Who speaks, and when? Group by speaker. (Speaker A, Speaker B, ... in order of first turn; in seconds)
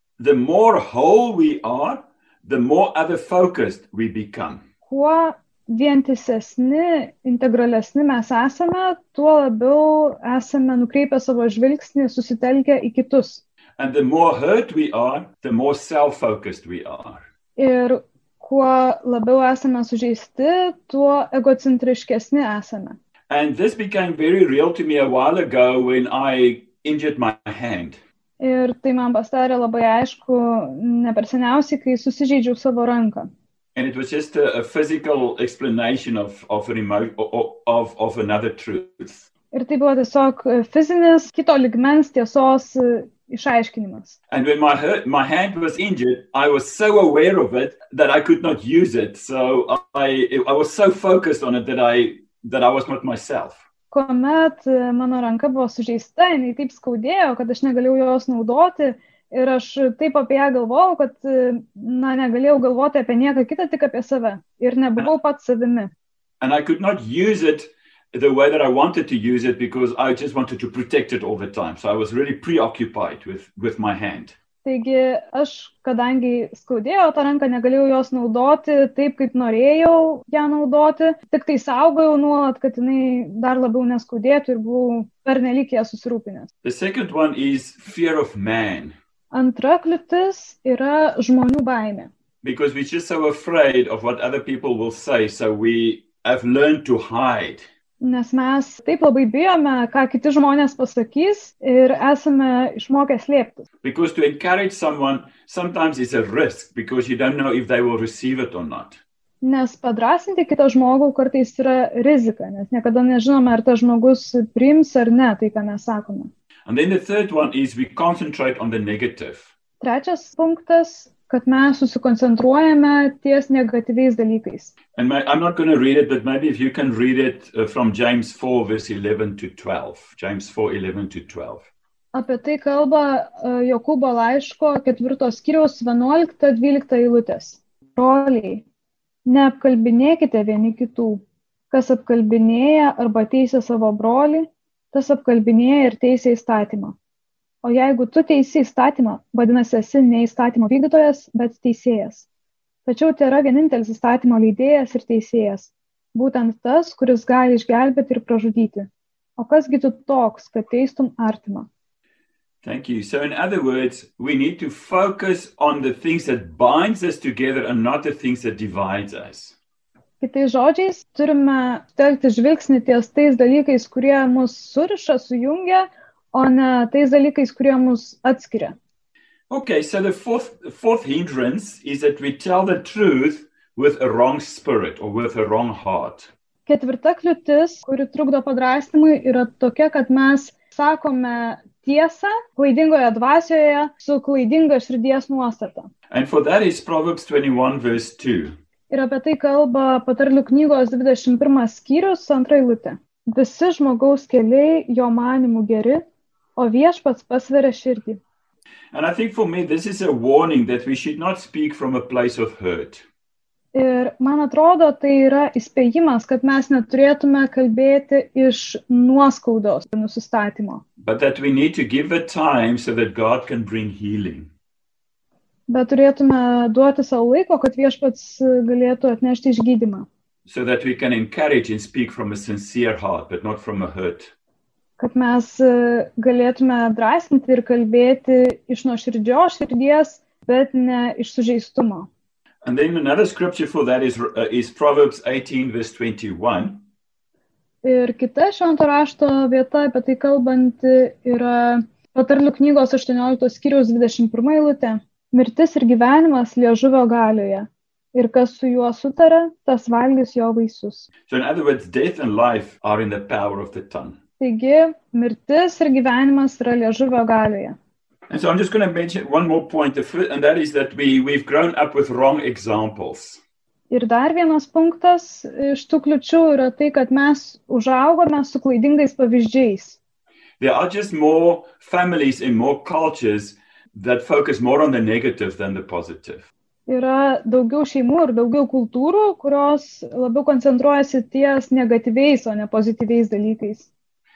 Speaker A: 0.2-4.6, 13.8-17.2, 23.3-28.0, 33.7-39.3, 44.3-53.6, 66.4-74.3, 86.6-88.9, 92.4-97.6, 103.8-109.0, 116.7-119.5, 124.9-131.7, 162.6-169.5, 179.5-186.3, 196.1-198.5, 208.9-213.0, 221.0-224.5, 230.4-234.3, 242.6-246.8, 261.3-264.2, 268.3-273.4, 280.6-286.5
Speaker B: 4.8-13.4, 17.6-23.0, 28.4-33.3, 39.5-44.2, 53.9-65.9, 74.6-86.5, 89.3-92.1, 98.0-103.6, 109.4-116.3, 119.8-124.7, 132.1-138.6, 139.2-146.9, 147.6-152.3, 152.8-161.7, 170.2-178.7, 186.7-195.9, 198.9-206.0, 206.6-208.2, 213.7-220.8, 225.7-230.1, 235.0-242.1, 247.8-261.1, 264.4-267.8, 273.9-280.0, 286.9-293.9